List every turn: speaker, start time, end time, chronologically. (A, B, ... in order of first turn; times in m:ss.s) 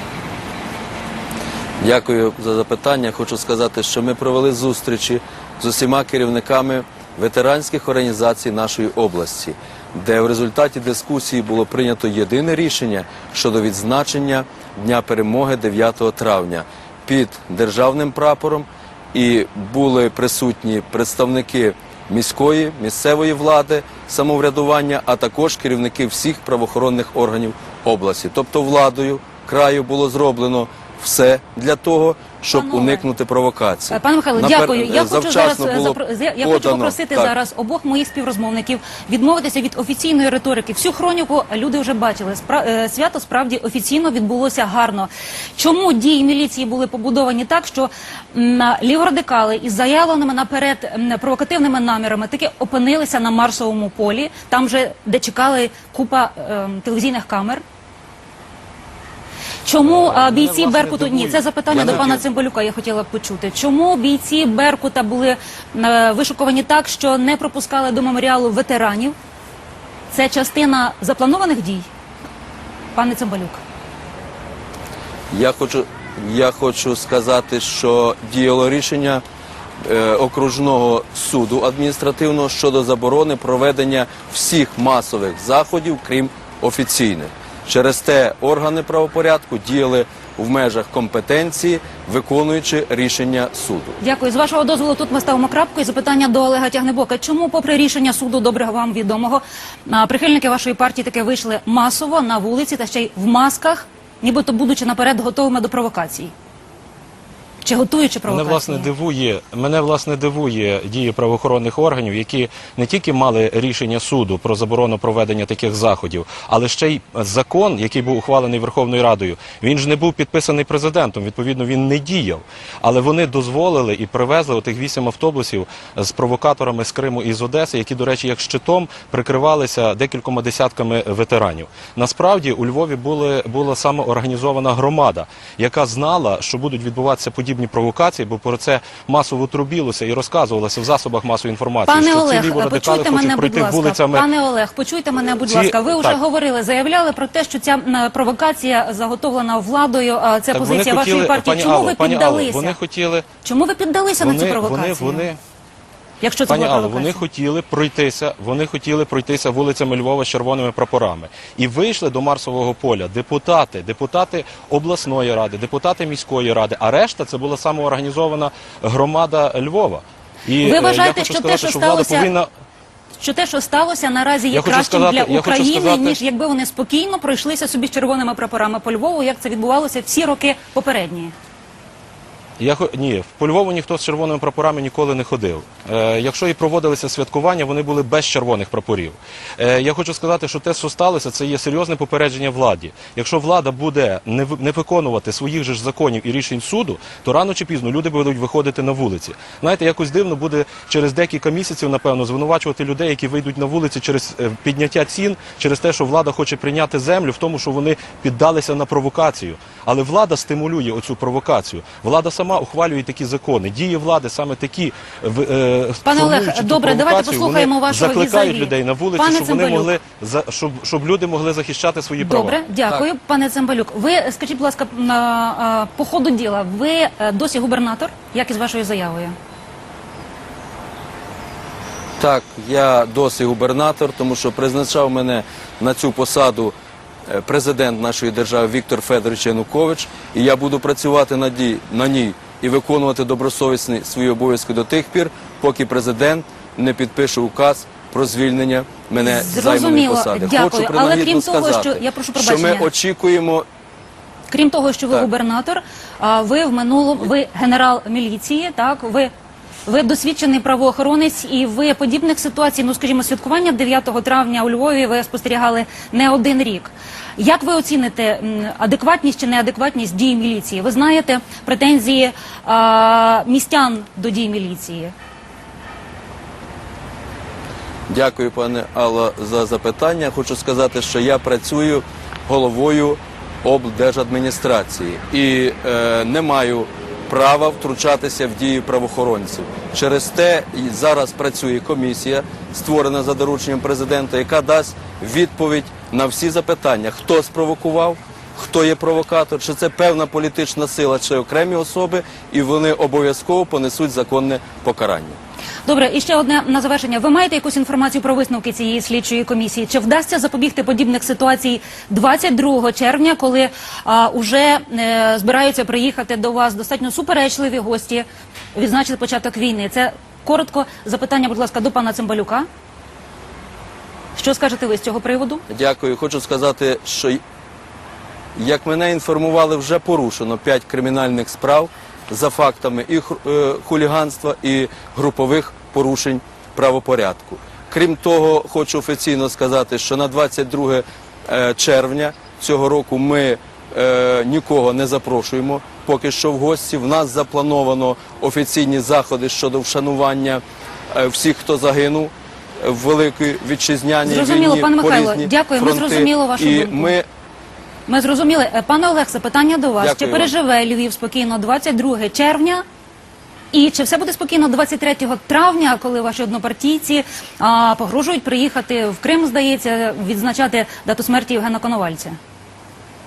0:01.8-0:37.3 A
0:32.5-0:33.0 B
0:33.9-0:57.6 B
0:59.6-1:09.1 B
0:59.8-1:01.8 C
1:01.7-1:02.2 A
1:10.1-1:11.9 B
1:12.9-1:13.6 B
1:15.3-1:19.2 A
1:19.8-1:34.0 A
1:34.0-1:46.3 B
1:47.6-1:48.9 B
1:48.3-2:24.3 C
2:21.8-2:32.8 B
2:25.4-2:26.2 C
2:30.5-2:33.3 C
2:33.4-2:35.3 B
2:34.2-2:35.4 C
2:36.2-2:37.2 B
2:36.5-2:52.5 C
2:50.6-2:52.3 B
2:53.2-3:01.3 B
2:54.5-2:56.2 C
3:02.6-3:42.6 C
3:36.0-3:39.9 B
3:42.2-3:49.3 B
3:52.2-3:56.7 A
3:57.3-4:13.6 A
4:09.2-4:12.9 B
4:14.5-4:19.3 B
4:19.8-4:35.1 B
4:38.1-5:05.4 A
5:05.8-5:22.7 B
5:24.3-5:25.6 B
5:25.7-5:27.4 A
5:28.5-5:57.2 A
5:54.2-5:57.2 B
5:58.1-6:02.8 B
6:00.0-6:00.5 A
6:03.7-6:12.4 B